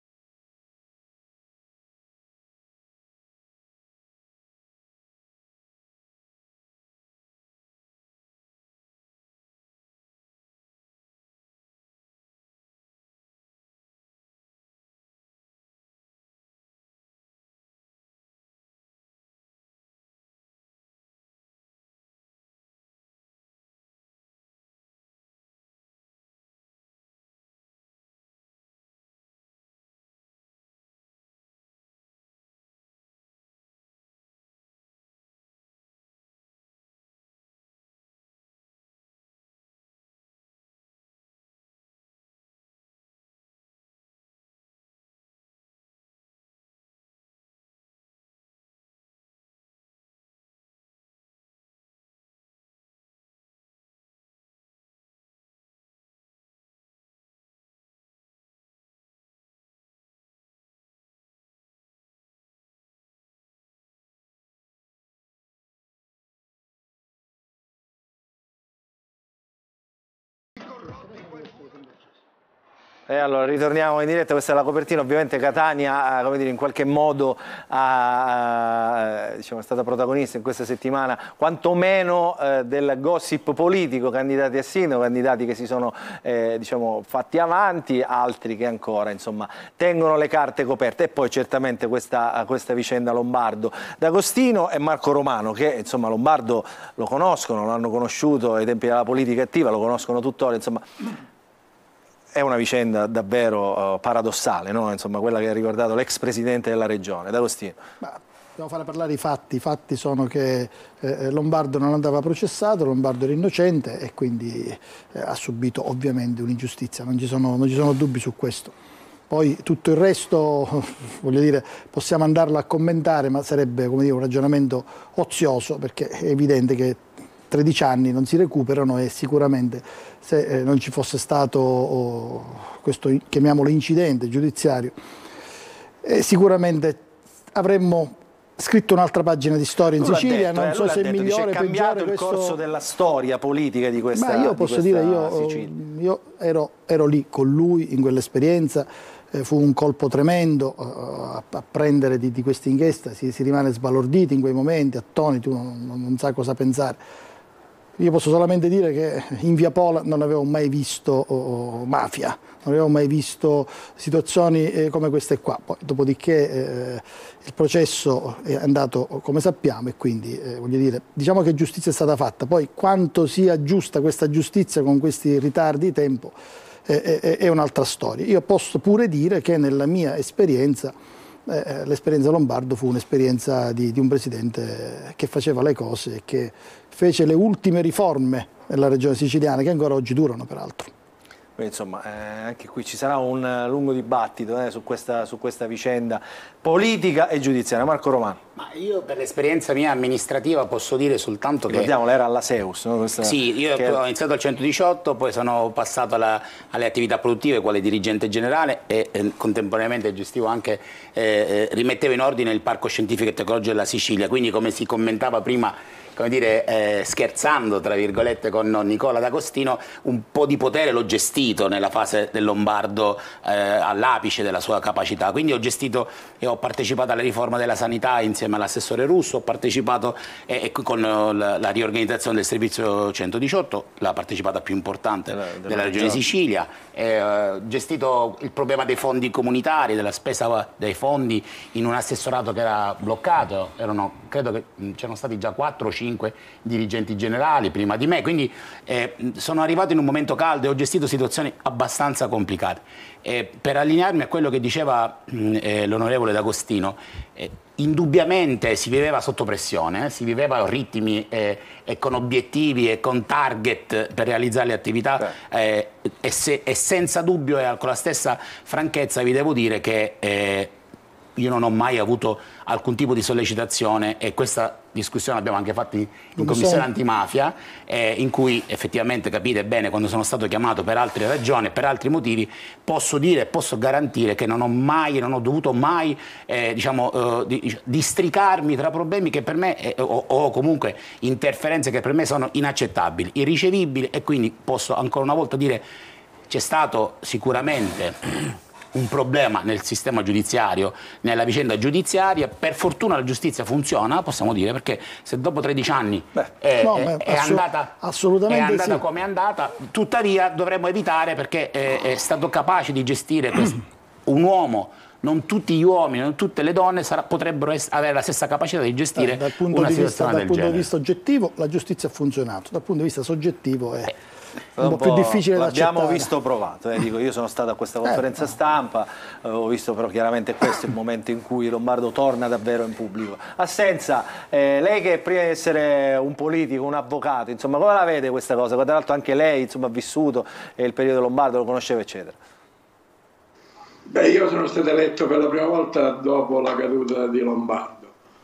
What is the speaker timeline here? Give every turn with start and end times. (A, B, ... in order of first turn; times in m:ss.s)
1:13.1-1:40.8 A
1:42.3-1:47.8 A
1:48.0-1:58.7 B
1:59.3-2:14.9 B
2:16.0-2:22.6 B
2:20.0-2:25.7 A
2:24.1-2:37.0 B
2:38.0-3:00.9 B
3:01.5-3:10.9 B
3:11.6-3:18.4 A
3:18.6-3:21.9 C
3:21.7-3:24.0 A
3:23.2-4:30.7 C
3:55.3-3:56.2 A
4:31.4-4:55.8 C
4:36.4-4:36.8 B
4:56.5-4:58.2 C
4:58.9-5:07.9 C
5:06.8-5:09.0 B
5:08.5-5:20.9 C
5:19.2-5:24.1 B
5:24.8-5:42.4 A
5:24.8-5:26.3 B
5:44.1-5:48.1 D